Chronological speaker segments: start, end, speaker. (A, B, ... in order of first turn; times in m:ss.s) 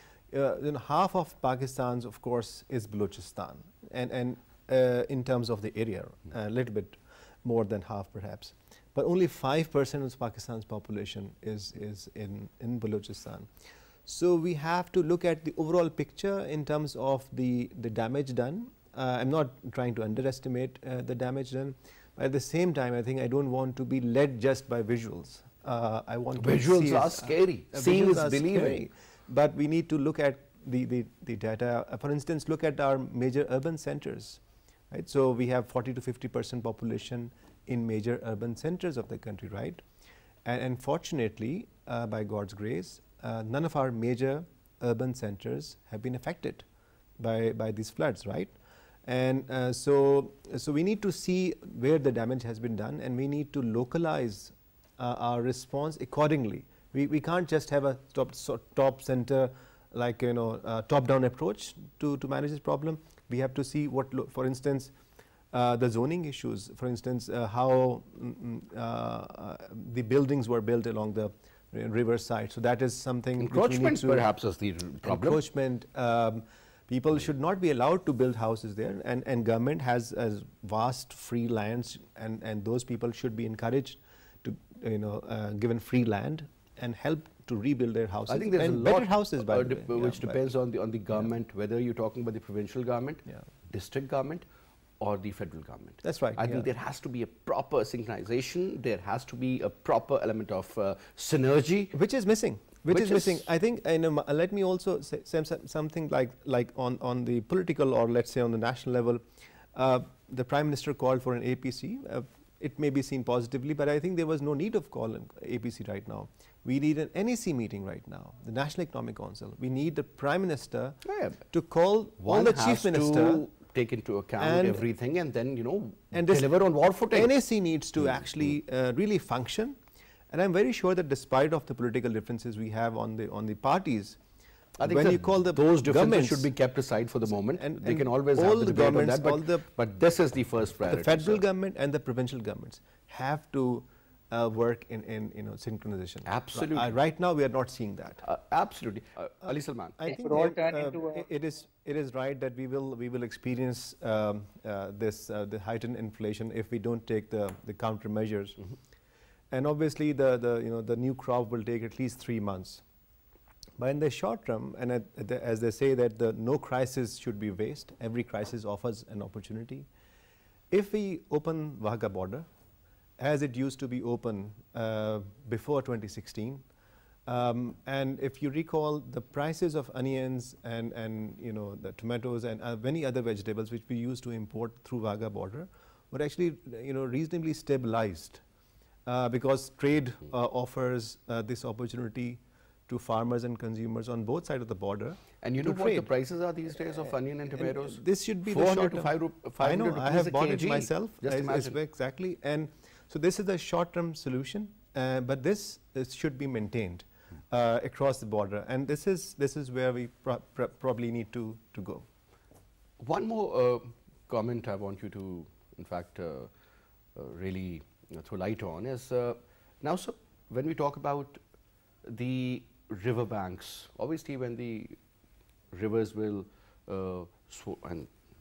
0:00.3-0:13.5 A
0:14.0-0:34.4 A
0:26.4-0:28.8 B
0:34.9-0:39.8 A
0:40.4-0:46.6 A
0:47.2-0:48.5 A
0:49.0-1:04.9 A
1:05.5-1:14.3 A
1:13.4-1:15.4 B
1:15.0-1:30.4 A
1:28.3-1:34.4 B
1:35.0-1:41.9 B
1:36.0-1:36.7 A
1:41.9-1:49.2 A
1:42.9-1:43.4 B
1:49.7-2:01.0 A
2:01.0-2:01.4 B
2:01.5-2:03.4 A
2:02.2-2:07.3 B
2:04.4-2:04.8 A
2:06.1-2:06.5 A
2:07.1-2:09.8 A
2:10.3-2:14.2 A
2:14.8-2:21.4 B
2:14.8-2:16.5 A
2:17.3-2:19.6 A
2:20.8-2:28.2 A
2:26.2-2:26.9 B
2:28.2-2:30.1 B
2:30.0-2:38.6 A
2:39.5-2:42.8 A
2:43.8-2:49.9 A
2:50.7-2:52.4 A
2:53.2-2:56.6 A
2:57.2-3:08.4 A
3:09.0-3:16.1 A
3:15.4-3:21.8 B
3:17.6-3:32.0 A
3:33.0-3:36.5 B
3:37.2-3:41.4 B
3:42.0-3:45.0 B
3:45.7-3:48.1 B